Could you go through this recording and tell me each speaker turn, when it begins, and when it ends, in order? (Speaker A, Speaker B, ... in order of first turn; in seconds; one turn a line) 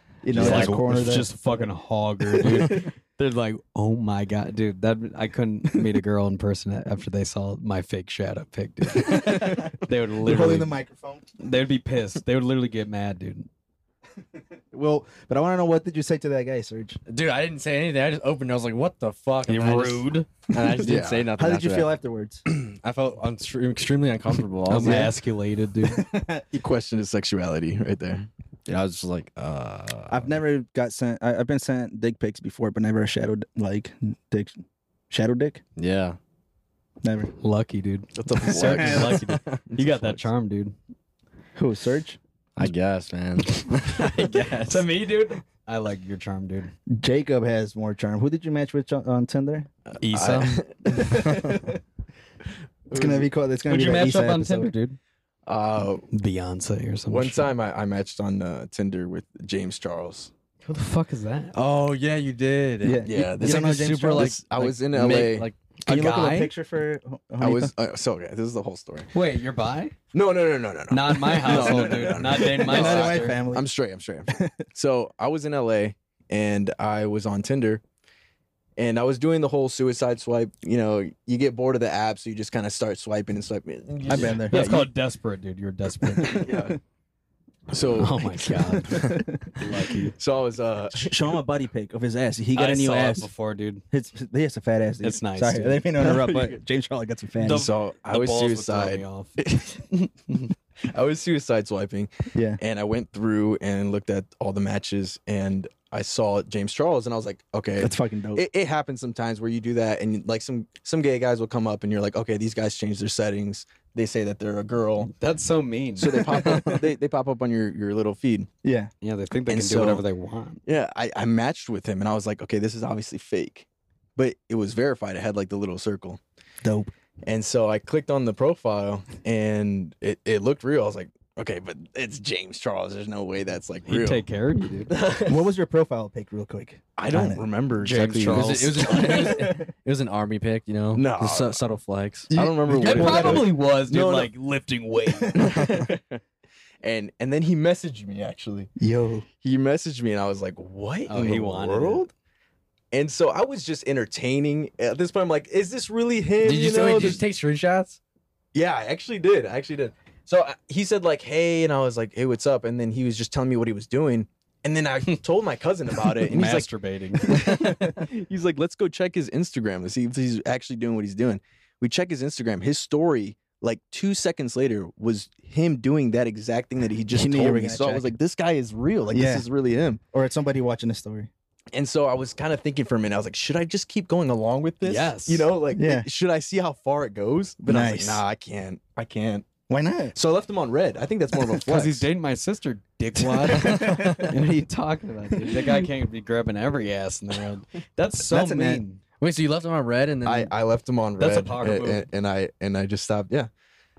Speaker A: 0.2-1.3
Speaker B: 0.3-1.2
Speaker C: 0.3-10.8
Speaker A: 2.5-2.8
Speaker A: 9.1-9.7
Speaker B: 9.1-9.7
Speaker A: 10.2-11.3
Speaker C: 11.4-13.5
Speaker A: 14.7-17.0
Speaker B: 17.1-22.0
Speaker C: 19.5-20.3
Speaker D: 20.8-21.3
Speaker A: 21.4-22.4
Speaker B: 22.5-25.1
Speaker C: 24.7-26.0
Speaker A: 24.8-25.2
Speaker A: 25.9-26.5
Speaker D: 26.5-28.3
Speaker B: 28.7-30.4
Speaker A: 30.1-35.6
Speaker B: 35.8-36.2
Speaker A: 37.0-37.3
Speaker C: 37.4-40.8
Speaker D: 38.1-40.3
Speaker A: 38.5-39.2
Speaker A: 41.6-42.2
Speaker B: 42.6-44.9
Speaker C: 43.5-46.7
Speaker A: 46.9-49.7
Speaker D: 49.9-51.6
Speaker C: 50.0-50.6
Speaker A: 50.9-51.8
Speaker D: 52.9-53.3
Speaker A: 52.9-54.7
Speaker C: 53.6-55.0
Speaker D: 55.5-56.0
Speaker C: 56.1-57.5
Speaker D: 57.1-60.3
Speaker C: 60.6-61.5
Speaker B: 61.5-65.6
Speaker A: 62.8-64.3
Speaker D: 63.1-65.5
Speaker C: 65.8-66.5
Speaker A: 65.9-67.7
Speaker D: 67.4-69.1
Speaker C: 69.1-70.0
Speaker D: 70.1-77.8
Speaker C: 70.9-73.4
Speaker A: 71.5-73.7
Speaker A: 74.3-74.6
Speaker D: 78.8-84.9
Speaker A: 84.1-84.7
Speaker C: 84.5-86.5
Speaker A: 86.2-86.8
Speaker D: 86.2-86.8
Speaker D: 87.7-89.2
Speaker C: 88.0-90.1
Speaker A: 88.9-89.5
Speaker D: 90.2-91.4
Speaker A: 91.0-93.3
Speaker C: 92.5-93.8
Speaker A: 93.9-97.7
Speaker C: 95.0-96.4
Speaker C: 97.4-100.5
Speaker D: 97.5-99.8
Speaker D: 100.9-115.1
Speaker A: 102.3-102.6
Speaker A: 107.8-108.4
Speaker C: 115.1-116.3
Speaker D: 116.0-118.5
Speaker A: 116.3-116.8
Speaker A: 118.6-118.9
Speaker C: 119.0-120.6
Speaker D: 119.5-120.0
Speaker D: 120.7-126.2
Speaker A: 126.6-126.9
Speaker D: 127.2-134.2
Speaker C: 133.9-134.9
Speaker D: 134.9-135.5
Speaker A: 135.1-137.5
Speaker D: 137.0-138.9
Speaker C: 137.8-139.4
Speaker B: 138.2-142.3
Speaker A: 138.8-139.7
Speaker D: 140.9-141.6
Speaker A: 142.3-143.5
Speaker D: 142.3-144.3
Speaker C: 142.8-145.5
Speaker A: 145.1-145.9
Speaker D: 145.3-146.2
Speaker D: 146.8-148.7
Speaker A: 148.8-149.2
Speaker D: 149.4-152.1
Speaker C: 151.1-152.1
Speaker D: 152.9-157.2
Speaker B: 156.4-158.0
Speaker D: 158.5-166.7
Speaker C: 166.2-167.4
Speaker D: 167.3-180.0
Speaker A: 167.3-168.1
Speaker A: 177.1-178.1
Speaker A: 179.1-179.5
Speaker A: 180.1-181.3
Speaker D: 181.7-189.5
Speaker C: 184.8-185.5
Speaker A: 185.8-186.1
Speaker A: 187.6-188.2
Speaker A: 189.7-190.1
Speaker D: 190.1-192.1
Speaker C: 191.7-199.0
Speaker A: 193.4-194.5
Speaker B: 193.7-194.1
Speaker A: 195.3-195.9
Speaker A: 198.2-198.8
Speaker B: 199.2-200.5
Speaker D: 200.2-203.5
Speaker C: 201.2-202.1